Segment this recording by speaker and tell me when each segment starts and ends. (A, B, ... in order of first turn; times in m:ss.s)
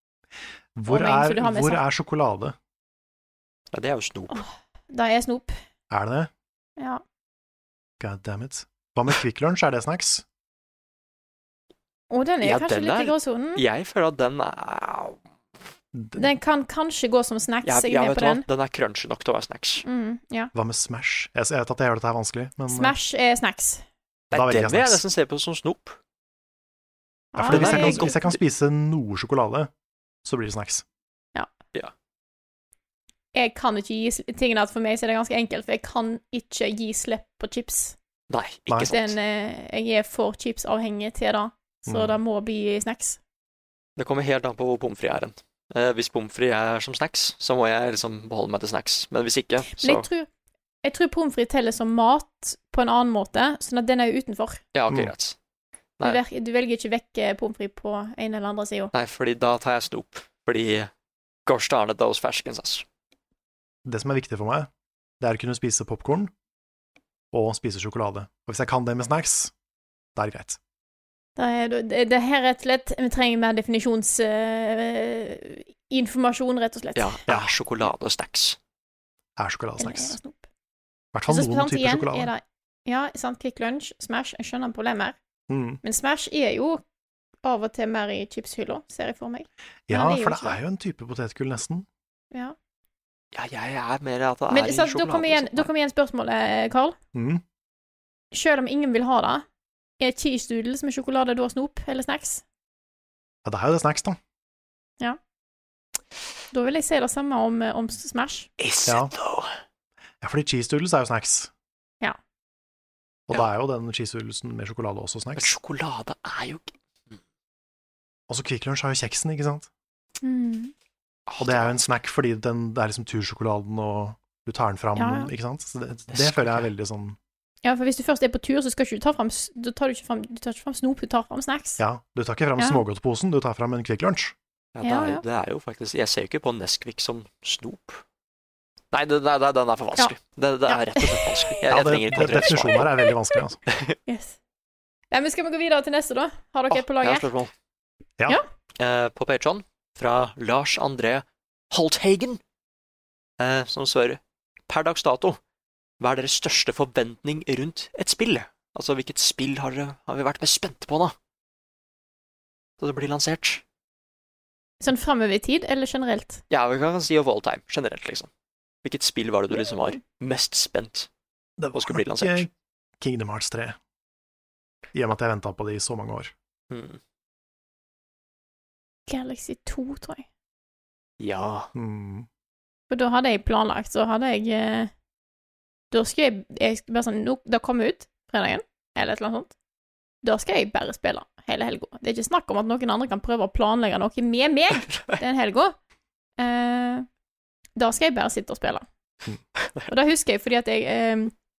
0:00.8-0:02.6 A
0:00.9-0:01.8 B
0:03.7-0:04.4 C
0:04.3-0:05.6 B
0:05.9-0:06.3 A
0:08.0-0:10.2 A
0:12.1-0:13.6 B
0:12.4-0:15.2 C
0:15.9-0:16.3 A
0:16.2-0:18.4 B
0:17.6-0:19.8 C
0:19.8-0:20.5 B
0:20.5-0:23.0 A
0:22.7-0:23.8 B
0:24.3-0:26.0 C
0:24.3-0:25.0 A
0:27.3-0:28.2 B
0:27.4-0:29.7 A
0:27.5-0:28.4 C
0:30.2-0:30.8 A
0:33.4-0:38.0 B
0:38.3-0:39.2 C
0:38.7-0:38.9 A
0:38.8-0:43.2 B
0:41.9-0:42.2 A
0:44.0-0:50.1 C
0:49.7-0:50.3 B
0:50.8-0:54.6 B
0:54.7-0:55.4 C
0:56.0-0:58.9 B
0:58.9-1:00.9 C
1:01.5-1:02.8 C
1:03.8-1:04.7 A
1:05.2-1:06.3 A
1:07.3-1:09.5 A
1:10.2-1:10.6 A
1:11.4-1:17.2 B
1:17.0-1:18.6 C
1:19.4-1:20.2 A
1:19.8-1:20.4 B
1:21.1-1:22.3 A
1:21.3-1:25.2 B
1:25.5-1:25.8 A
1:25.8-1:26.8 B
1:27.4-1:30.6 B
1:29.9-1:31.9 A
1:33.3-1:35.7 C
1:34.5-1:37.0 B
1:37.1-1:37.4 A
1:38.3-1:39.4 B
1:40.0-1:42.4 B
1:43.4-1:44.2 A
1:46.5-1:48.5 B
1:48.6-1:49.5 C
1:48.9-1:49.1 A
1:50.2-1:51.5 A
1:53.3-1:55.5 A
1:55.4-1:56.7 C
1:58.3-1:59.7 A
2:00.2-2:00.7 B
2:01.3-2:01.8 C
2:01.4-2:07.2 A
2:05.0-2:05.3 B
2:06.1-2:06.7 C
2:07.6-2:11.8 B
2:11.8-2:14.4 A
2:12.6-2:12.8 B
2:14.8-2:18.0 C
2:14.8-2:15.2 B
2:18.9-2:22.9 C
2:20.7-2:21.6 B
2:21.7-2:23.6 A
2:23.7-2:24.0 C
2:24.1-2:24.4 B
2:25.1-2:27.3 B
2:26.7-2:27.5 C
2:28.8-2:32.4 C
2:33.4-2:35.4 C
2:36.0-2:41.2 C
2:42.8-2:43.6 C
2:44.8-2:46.4 B
2:46.5-2:48.3 C
2:48.8-2:51.1 C
2:51.6-2:53.8 A
2:51.7-2:52.5 C
2:54.9-2:56.3 A
2:56.7-2:57.0 C
2:59.1-3:00.2 B
3:01.2-3:01.7 C
3:01.8-3:02.3 A
3:02.9-3:04.9 B
3:05.9-3:09.5 B
3:10.2-3:15.8 B
3:14.8-3:15.2 C
3:16.4-3:17.1 B
3:17.8-3:18.8 B
3:19.9-3:21.3 B